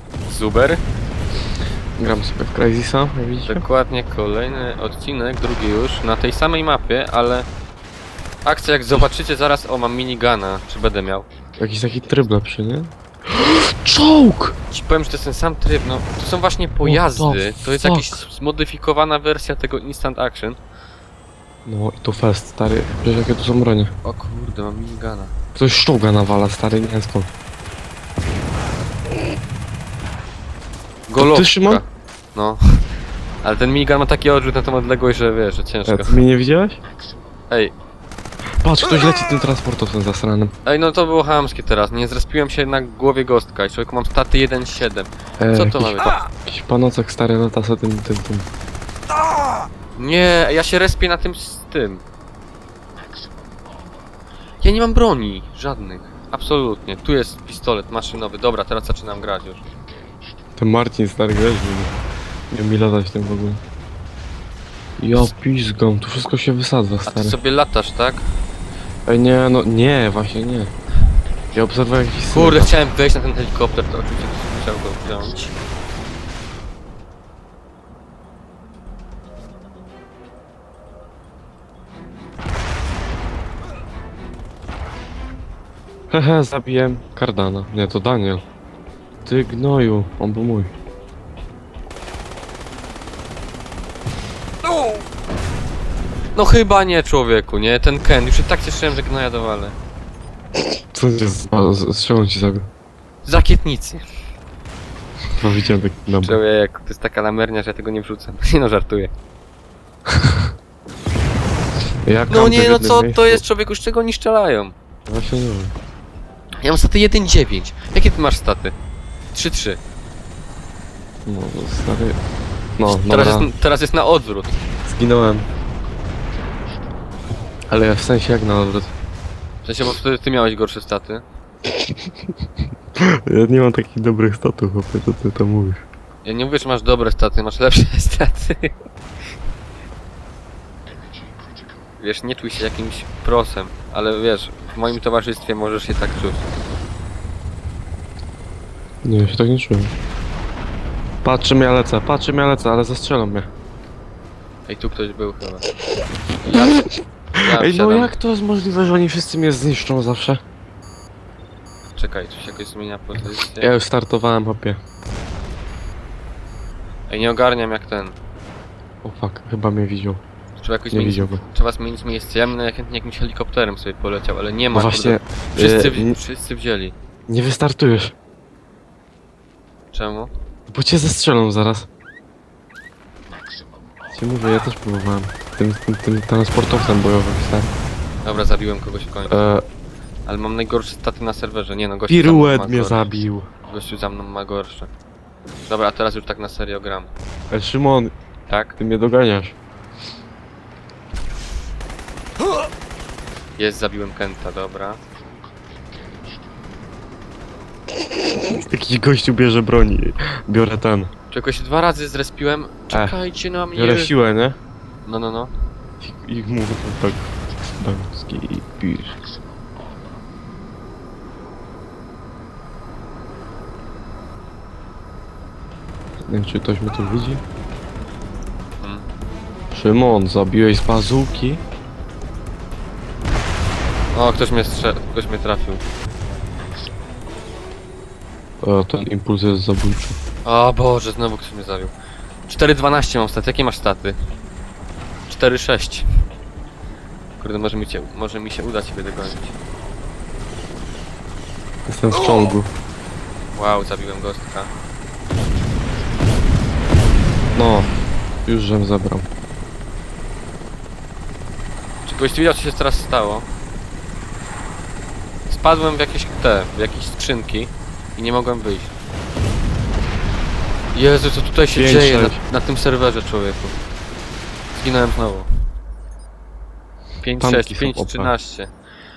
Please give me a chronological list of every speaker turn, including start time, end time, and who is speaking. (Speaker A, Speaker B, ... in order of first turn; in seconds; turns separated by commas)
Speaker A: 0.2-0.8, Speaker B: 2.0-3.6, Speaker A: 3.5-7.5, Speaker A: 8.4-11.2, Speaker B: 11.6-14.6, Speaker A: 14.7-20.6, Speaker B: 16.8-18.2, Speaker B: 21.7-23.9, Speaker A: 24.0-25.3, Speaker B: 25.5-27.3, Speaker A: 31.1-32.6, Speaker B: 31.2-31.8, Speaker A: 33.4-36.2, Speaker B: 35.9-36.8, Speaker B: 38.6-40.5, Speaker A: 40.6-46.2, Speaker B: 45.4-48.5, Speaker A: 50.0-52.0, Speaker A: 54.6-59.6, Speaker B: 60.6-62.0, Speaker B: 62.5-63.6, Speaker B: 65.0-67.4, Speaker A: 67.0-68.2, Speaker B: 69.1-70.7, Speaker B: 71.5-72.8, Speaker A: 72.3-75.5, Speaker B: 86.1-88.4, Speaker B: 89.2-90.7, Speaker A: 96.3-99.7, Speaker B: 100.9-102.7, Speaker A: 103.2-104.0, Speaker B: 105.4-106.4, Speaker A: 106.1-109.1, Speaker B: 112.0-113.4, Speaker A: 112.3-114.7, Speaker B: 115.1-115.7, Speaker A: 116.6-118.7, Speaker A: 119.3-119.8, Speaker B: 121.2-122.2, Speaker B: 122.8-123.5, Speaker A: 122.9-124.6, Speaker B: 124.9-125.5, Speaker B: 127.7-128.9, Speaker A: 129.6-131.2, Speaker B: 133.0-135.8, Speaker A: 136.2-138.7, Speaker A: 142.0-146.5, Speaker B: 149.1-149.9, Speaker B: 151.2-153.5, Speaker A: 154.7-155.7, Speaker A: 156.4-156.8, Speaker B: 156.7-157.0, Speaker A: 157.4-158.2, Speaker B: 157.5-160.4, Speaker A: 162.0-163.7, Speaker B: 163.5-164.8, Speaker A: 167.1-168.2, Speaker B: 169.0-170.2, Speaker A: 170.6-176.9, Speaker B: 170.9-171.4, Speaker B: 174.7-176.2, Speaker B: 177.3-178.1, Speaker A: 179.9-180.3, Speaker B: 180.7-181.9, Speaker B: 184.1-187.7, Speaker A: 188.2-189.6, Speaker B: 189.3-189.6, Speaker A: 190.3-194.9, Speaker B: 192.1-193.5, Speaker A: 195.7-197.1, Speaker B: 197.5-198.1, Speaker A: 198.5-198.8, Speaker B: 198.8-199.6, Speaker A: 203.6-205.0, Speaker B: 208.3-211.1, Speaker A: 211.3-214.1, Speaker B: 213.8-214.6, Speaker A: 215.1-215.5, Speaker B: 216.0-219.2, Speaker B: 226.3-227.4, Speaker A: 228.8-229.1, Speaker B: 229.7-231.6, Speaker A: 234.1-235.8, Speaker B: 238.6-240.2, Speaker A: 240.4-241.9, Speaker A: 242.5-244.2, Speaker A: 245.3-246.1, Speaker A: 247.4-249.6, Speaker B: 251.9-252.7, Speaker A: 253.5-254.7, Speaker B: 257.5-257.9, Speaker B: 258.4-259.3, Speaker A: 262.0-263.4, Speaker A: 265.5-268.9, Speaker A: 270.9-273.8, Speaker B: 271.8-272.4, Speaker A: 274.8-275.5, Speaker A: 277.2-278.7, Speaker B: 277.4-278.3